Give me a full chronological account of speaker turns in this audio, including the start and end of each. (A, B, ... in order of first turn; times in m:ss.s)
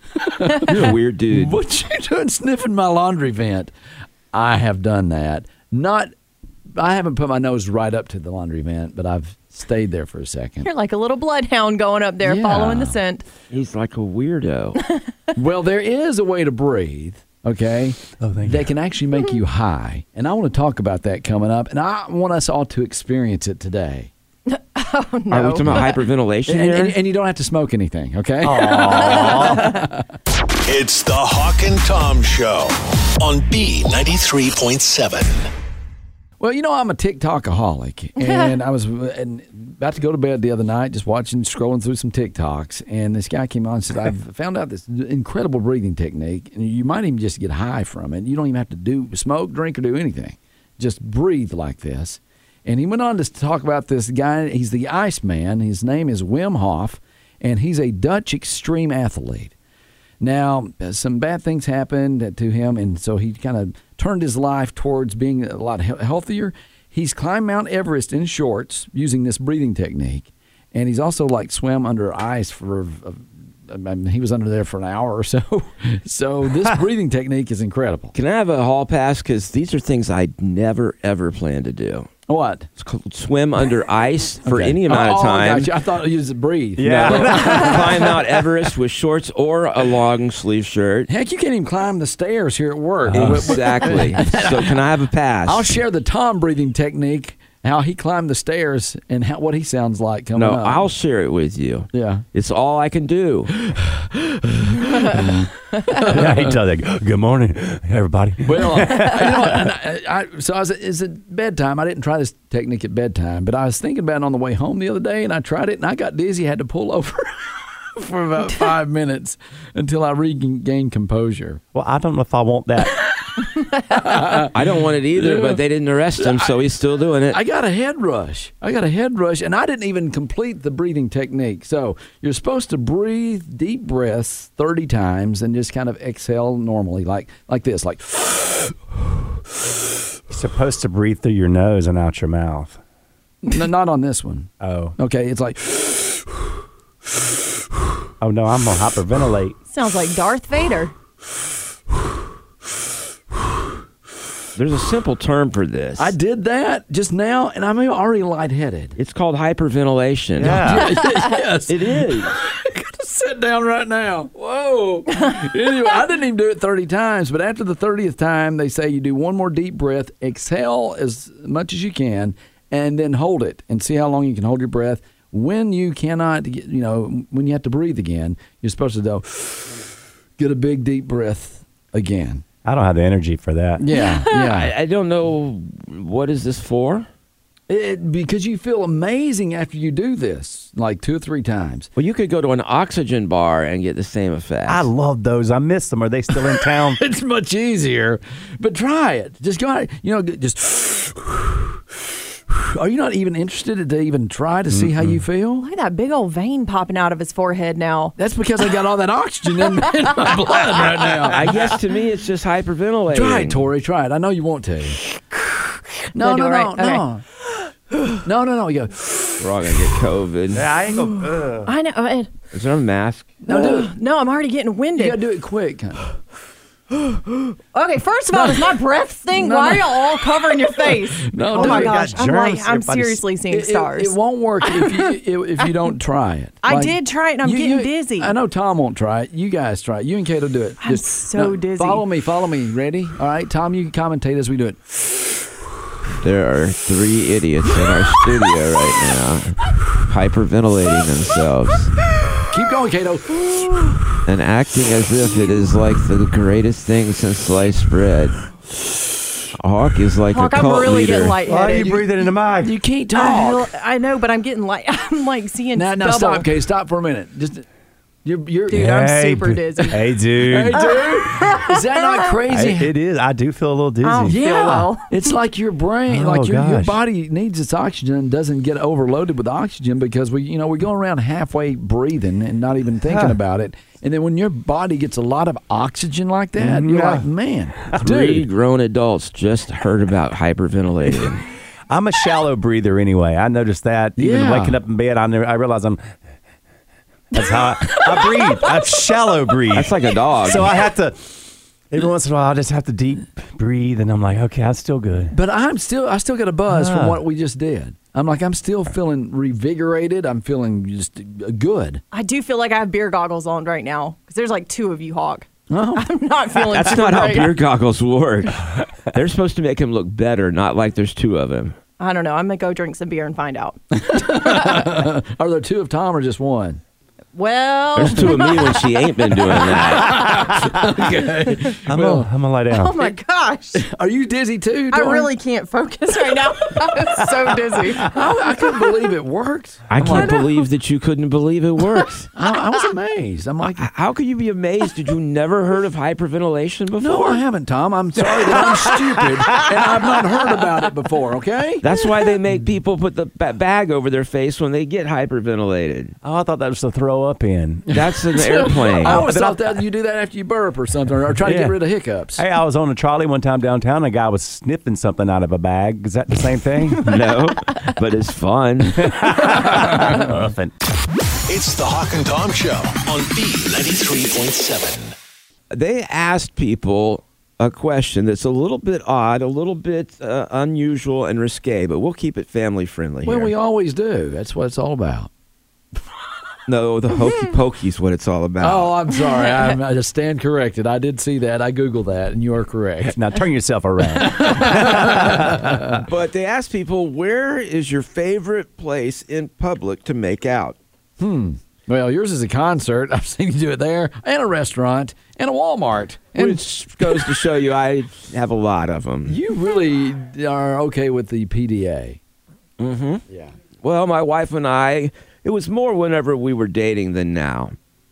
0:00.2-0:03.7 A
0:00.6-0:01.6 B
0:04.3-0:06.1 A
0:06.7-0:10.7 A
0:10.6-0:13.2 C
0:12.2-0:13.0 A
0:13.5-0:14.8 B
0:14.8-0:15.1 C
0:15.3-0:24.1 A
0:18.2-0:18.7 D
0:24.5-0:26.0 C
0:25.3-0:27.0 B
0:26.5-0:30.1 A
0:28.4-0:29.8 D
0:28.8-0:29.6 C
0:30.6-0:35.5 E
0:36.4-0:59.5 A
1:00.2-1:18.1 A
1:18.1-1:22.1 B
1:22.3-1:22.7 A
1:22.8-1:25.7 B
1:24.4-1:28.0 A
1:26.8-1:28.1 D
1:26.8-1:31.1 B
1:31.1-1:34.8 A
1:33.0-1:34.0 D
1:33.1-1:35.8 B
1:35.4-1:40.9 A
1:40.3-1:43.5 B
1:41.9-1:42.2 A
1:43.5-1:45.3 A
1:45.1-1:49.7 D
1:45.9-1:46.6 A
1:48.4-2:01.6 A
2:01.7-2:03.0 D
2:03.9-2:05.6 A
2:04.5-2:07.4 B
2:06.2-2:06.6 A
2:07.3-2:18.8 A
2:20.3-2:22.8 D
2:23.4-2:26.4 A
2:24.6-2:25.0 D
2:28.2-2:29.6 D
2:29.7-2:30.9 C
2:34.6-2:36.1 B
2:36.0-2:39.0 A
2:39.0-2:40.8 B
2:40.4-2:40.9 D
2:40.4-2:59.8 A
2:41.7-2:42.4 B
3:00.4-3:02.4 A
3:02.6-3:03.8 D
3:03.8-3:04.7 A
3:04.3-3:07.1 B
3:07.7-3:11.9 A
3:12.0-3:14.9 B
3:14.7-3:17.0 D
3:16.5-3:21.8 A
3:22.5-3:25.6 A
3:24.7-3:25.2 D
3:25.6-3:28.1 C
3:28.2-3:31.6 A
3:31.3-3:33.7 B
3:33.1-3:35.0 A
3:36.1-3:37.2 A
3:36.1-3:37.0 C
3:38.2-3:39.5 A
3:39.4-3:40.7 B
3:40.5-3:41.7 D
3:41.1-3:42.3 C
3:42.5-3:43.4 B
3:43.4-3:43.9 A
3:43.5-3:45.2 C
3:44.9-3:46.1 A
3:46.9-3:55.7 C
3:48.3-3:48.8 A
3:49.3-3:52.0 A
3:51.5-3:53.2 D
3:53.5-4:04.8 A
3:56.6-3:58.3 C
4:00.8-4:02.0 C
4:06.2-4:11.9 B
4:12.5-4:14.0 A
4:14.2-4:18.4 B
4:19.6-4:21.4 B
4:20.3-4:22.1 C
4:21.4-4:22.7 D
4:22.6-4:23.7 A
4:23.1-4:26.5 C
4:25.7-4:27.6 A
4:28.2-4:28.9 A
4:28.7-4:30.0 C
4:28.7-4:30.8 D
4:30.4-4:32.9 A
4:30.7-4:32.3 C
4:32.5-4:34.9 D
4:34.0-4:35.3 C
4:34.2-4:48.4 A
4:36.1-4:37.0 D
4:43.0-4:43.4 D
4:46.6-4:47.3 D
4:48.0-4:51.4 B
4:51.9-4:56.0 D
4:54.2-4:54.8 A
4:57.3-5:05.3 D
4:57.8-4:58.4 C
4:59.7-5:00.7 B
5:05.3-5:12.0 A
5:06.7-5:07.2 D
5:12.1-5:17.5 C
5:15.7-5:16.1 A
5:16.7-5:21.8 B
5:22.0-5:24.9 C
5:23.9-5:26.8 A
5:27.3-5:28.9 C
5:27.9-5:30.3 B
5:29.9-5:32.3 A
5:29.9-5:30.2 C
5:31.8-5:33.1 D
5:32.7-5:33.8 C
5:33.7-5:35.3 A
5:34.9-5:38.2 C
5:38.0-5:40.4 A
5:39.9-5:42.3 B
5:40.0-5:40.6 C
5:42.3-5:43.9 A
5:43.8-5:47.4 B
5:47.0-5:51.8 A
5:51.8-5:56.2 B
5:56.2-5:58.0 D
5:57.9-6:02.4 A
5:57.9-5:59.2 B
5:59.0-5:59.8 D
6:01.4-6:01.8 D
6:02.3-6:07.1 D
6:07.0-6:09.6 B
6:09.0-6:10.7 D
6:11.5-6:15.1 E
6:15.7-6:23.5 B
6:23.2-6:25.3 A
6:26.7-6:28.9 B
6:28.6-6:33.2 A
6:33.0-6:36.0 D
6:34.2-6:36.0 A
6:36.0-6:40.8 B
6:41.2-6:47.2 A
6:46.4-6:49.4 B
6:49.2-6:52.2 A
6:52.8-6:53.2 B
6:53.8-6:57.7 B